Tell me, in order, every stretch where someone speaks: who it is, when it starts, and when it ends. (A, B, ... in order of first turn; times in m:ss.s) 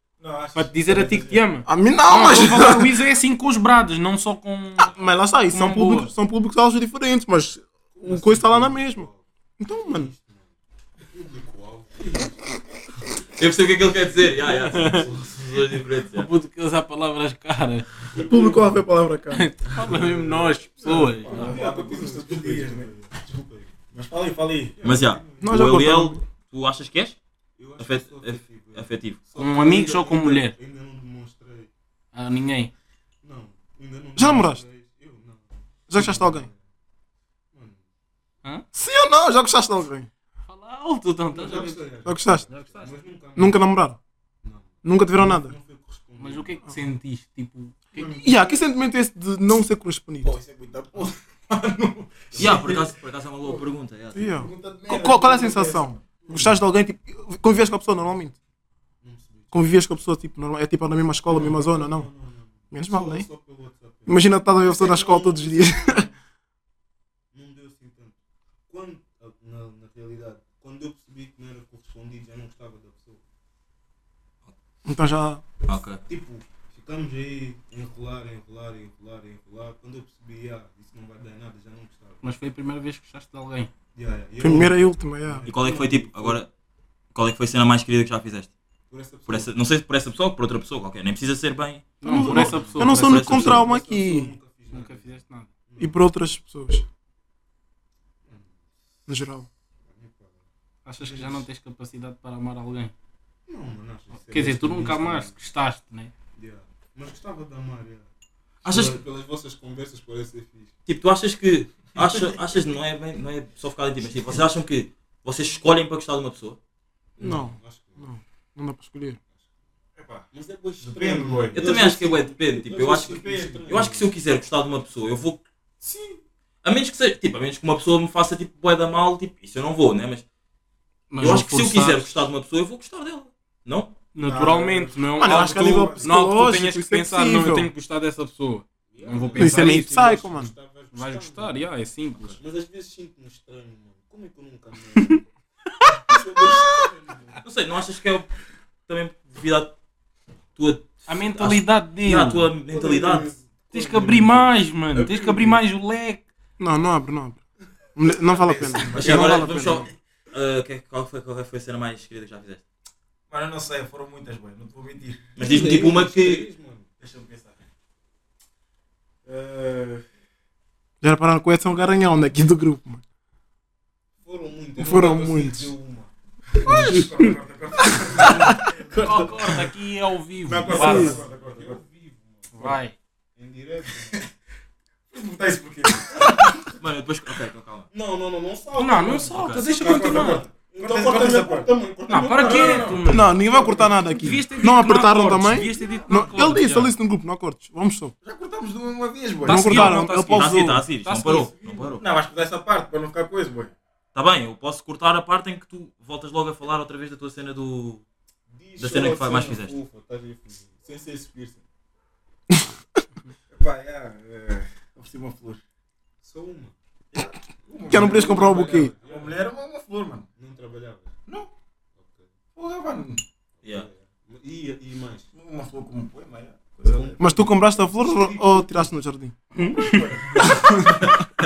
0:00.2-0:01.4 A
0:00.6-0:04.9 B
0:01.7-0:03.0 C
0:04.8-0:09.1 C
0:05.5-0:06.1 B
0:07.9-0:10.5 D
0:09.6-0:10.1 C
0:11.1-0:12.4 D
0:13.4-0:16.3 E
0:14.2-0:15.4 D
0:14.5-0:15.1 B
0:16.1-0:17.9 B
0:18.1-0:18.8 D
0:18.2-0:19.4 C
0:19.3-0:21.6 B
0:19.8-0:23.8 D
0:20.8-0:22.9 A
0:23.9-0:24.8 A
0:24.8-0:25.7 D
0:24.8-0:27.2 E
0:25.4-0:26.2 C
0:27.6-0:31.7 D
0:27.8-0:29.2 E
0:29.4-0:30.6 B
0:32.1-0:32.7 B
0:33.2-0:36.6 D
0:34.2-0:34.6 C
0:35.9-0:36.5 C
0:37.5-0:37.8 D
0:38.7-0:40.1 C
0:40.5-0:41.8 B
0:41.3-0:43.6 D
0:42.1-0:42.5 C
0:42.5-0:43.0 B
0:43.4-0:44.0 C
0:44.4-0:46.7 D
0:44.8-0:45.6 C
0:46.2-0:48.1 B
0:48.0-0:48.3 A
0:48.2-0:50.3 C
0:50.2-0:53.6 A
0:52.4-0:54.3 E
0:54.1-0:58.4 C
0:54.3-0:56.0 A
0:56.2-0:56.6 D
0:59.0-0:59.7 D
0:59.5-1:02.1 C
1:01.3-1:06.1 D
1:02.7-1:03.3 C
1:04.1-1:06.1 C
1:07.3-1:08.2 D
1:08.7-1:13.2 D
1:14.8-1:15.4 C
1:15.7-1:16.0 E
1:16.1-1:22.2 D
1:22.2-1:23.7 B
1:24.0-1:26.4 D
1:24.4-1:25.5 C
1:25.4-1:26.5 E
1:27.1-1:28.5 E
1:28.9-1:29.5 D
1:29.3-1:33.7 E
1:32.0-1:33.3 B
1:32.0-1:34.4 C
1:32.2-1:36.0 D
1:34.7-1:35.5 B
1:35.8-1:36.8 C
1:38.2-1:38.6 D
1:39.1-1:39.5 C
1:39.8-1:40.4 D
1:40.8-1:42.9 B
1:41.0-1:41.5 D
1:43.5-1:45.4 D
1:44.1-1:46.1 B
1:46.4-1:48.1 D
1:48.6-1:49.0 E
1:48.7-1:50.7 D
1:50.9-1:56.6 E
1:57.2-1:58.1 D
1:57.2-1:59.2 C
2:00.0-2:00.3 A
2:00.3-2:04.1 D
2:00.8-2:02.0 A
2:01.6-2:05.4 E
2:02.8-2:03.8 A
2:06.6-2:10.2 E
2:11.1-2:12.1 B
2:11.2-2:14.0 E
2:14.1-2:20.0 B
2:14.2-2:16.1 A
2:15.2-2:17.7 C
2:15.3-2:15.7 D
2:18.9-2:21.6 D
2:19.4-2:20.5 C
2:20.9-2:22.4 B
2:22.3-2:25.2 D
2:26.1-2:27.4 D
2:27.4-2:28.3 E
2:28.9-2:29.8 E
2:30.6-2:33.3 E
2:31.1-2:32.5 B
2:32.7-2:34.5 D
2:32.8-2:33.2 A
2:33.7-2:36.2 B
2:34.9-2:35.6 A
2:36.6-2:37.4 C
2:38.0-2:39.9 C
2:38.3-2:39.5 A
2:38.6-2:39.0 D
2:38.9-2:42.6 E
2:43.3-2:46.0 A
2:45.4-2:46.9 D
2:45.4-2:46.5 E
2:47.0-2:47.6 A
2:49.2-2:50.0 A
2:51.0-2:53.0 C
2:54.2-2:56.1 D
2:54.8-2:55.7 C
2:56.6-2:57.1 C
2:56.6-2:57.3 B
2:56.7-2:59.5 A
2:57.9-2:59.5 D
2:58.2-2:58.6 C
2:58.9-3:01.2 B
3:00.5-3:01.8 A
3:00.6-3:02.8 D
3:00.7-3:01.2 C
3:02.5-3:03.0 B
3:03.4-3:04.3 D
3:05.1-3:06.5 A
3:06.6-3:07.9 E
3:07.9-3:13.9 D
3:08.8-3:10.5 B
3:09.1-3:09.7 E
3:09.6-3:11.7 A
3:12.1-3:13.3 B
3:12.3-3:13.2 A
3:13.1-3:18.1 C
3:14.0-3:17.0 B
3:15.5-3:16.4 E
3:18.2-3:19.7 A
3:19.4-3:20.8 C
3:19.4-3:21.5 B
3:19.7-3:22.0 E
3:22.0-3:23.7 A
3:24.1-3:28.0 E
3:28.5-3:31.6 D
3:28.8-3:29.8 E
3:30.9-3:31.6 A
3:33.5-3:35.6 A
3:36.2-3:36.8 D
3:37.1-3:40.3 A
3:37.8-3:39.4 D
3:37.9-3:38.9 C
3:40.4-3:41.2 D
3:42.0-3:42.3 D
3:42.6-3:43.2 A
3:43.6-3:45.3 D
3:43.6-3:43.9 E
3:45.3-3:47.2 A
3:46.8-3:48.9 D
3:47.2-3:49.4 C
3:49.6-3:50.0 B
3:49.6-3:51.2 A
3:50.5-3:51.0 C